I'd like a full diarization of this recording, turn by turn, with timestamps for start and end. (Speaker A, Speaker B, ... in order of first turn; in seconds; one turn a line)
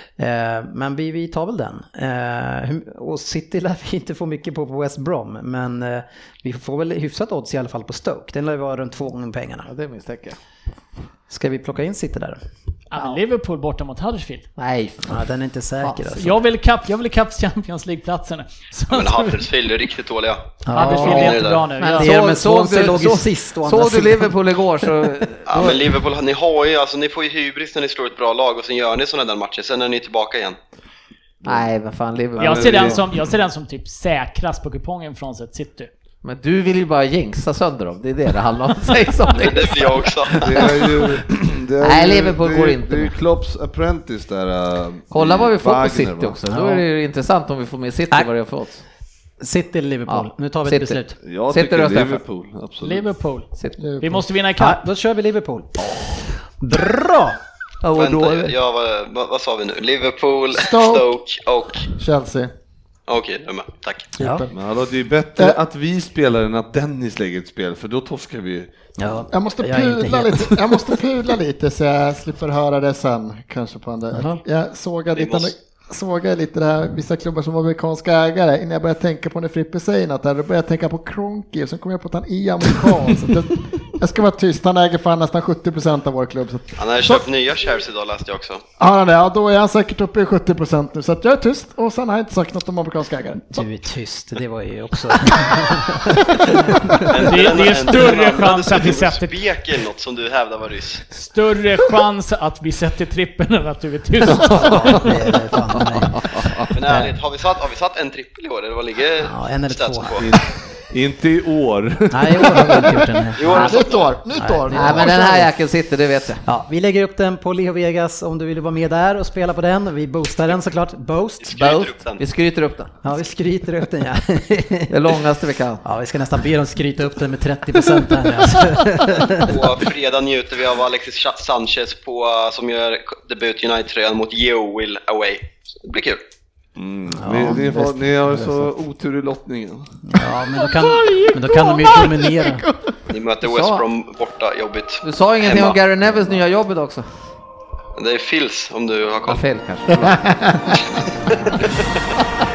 Speaker A: 0.2-9.7
Speaker B: 9.6-10.4
Speaker A: 11.3-12.4
Speaker C: 12.9-14.5
Speaker B: 14.6-15.2
Speaker A: 15.1-16.3
Speaker B: 15.8-16.2
Speaker C: 16.1-19.5
Speaker D: 18.9-21.7
Speaker A: 20.6-21.4
Speaker C: 20.7-22.1
Speaker B: 21.0-21.2
Speaker B: 21.8-26.0
Speaker A: 21.9-24.3
Speaker D: 25.5-30.6
Speaker B: 31.4-33.0
Speaker E: 32.4-33.0
Speaker C: 32.4-35.9
Speaker B: 36.2-40.5
Speaker D: 39.4-40.6
Speaker E: 40.3-46.4
Speaker B: 41.8-43.2
Speaker B: 45.1-48.8
Speaker A: 46.5-46.8
Speaker A: 49.4-51.2
Speaker B: 50.1-52.2
Speaker E: 51.2-53.0
Speaker C: 52.8-53.5
Speaker B: 53.5-53.8
Speaker F: 53.8-54.2
Speaker C: 54.0-54.8
Speaker A: 54.6-55.7
Speaker A: 56.6-57.4
Speaker B: 57.8-58.5
Speaker D: 57.9-61.9
Speaker F: 60.5-61.2
Speaker F: 62.0-62.5
Speaker D: 63.1-64.1
Speaker A: 64.2-64.5
Speaker F: 64.2-64.6
Speaker E: 64.5-68.7
Speaker A: 69.0-70.8
Speaker F: 69.3-87.2
Speaker A: 74.1-74.4
Speaker D: 75.1-75.5
Speaker D: 86.8-88.6
Speaker F: 88.8-93.7
Speaker A: 93.5-97.1
Speaker D: 97.1-101.0
Speaker C: 97.2-99.4
Speaker C: 101.1-105.2
Speaker A: 104.5-107.1
Speaker B: 105.9-106.7
Speaker D: 106.7-110.2
Speaker A: 109.2-110.2
Speaker E: 110.2-113.1
Speaker A: 112.1-113.8
Speaker D: 113.4-114.2
Speaker F: 113.5-115.4
Speaker A: 114.3-115.5
Speaker B: 114.7-116.4
Speaker A: 116.4-121.5
Speaker D: 121.4-122.2
Speaker B: 121.5-122.9
Speaker A: 123.0-125.1
Speaker B: 124.9-125.8
Speaker A: 125.8-129.8
Speaker D: 129.3-136.2
Speaker E: 136.8-139.9
Speaker A: 137.2-138.7
Speaker A: 140.1-142.6
Speaker C: 140.7-142.3
Speaker D: 143.1-145.8
Speaker B: 143.4-143.8
Speaker B: 145.0-147.1
Speaker D: 148.0-149.4
Speaker B: 149.3-150.3
Speaker F: 150.0-150.7
Speaker D: 150.9-151.7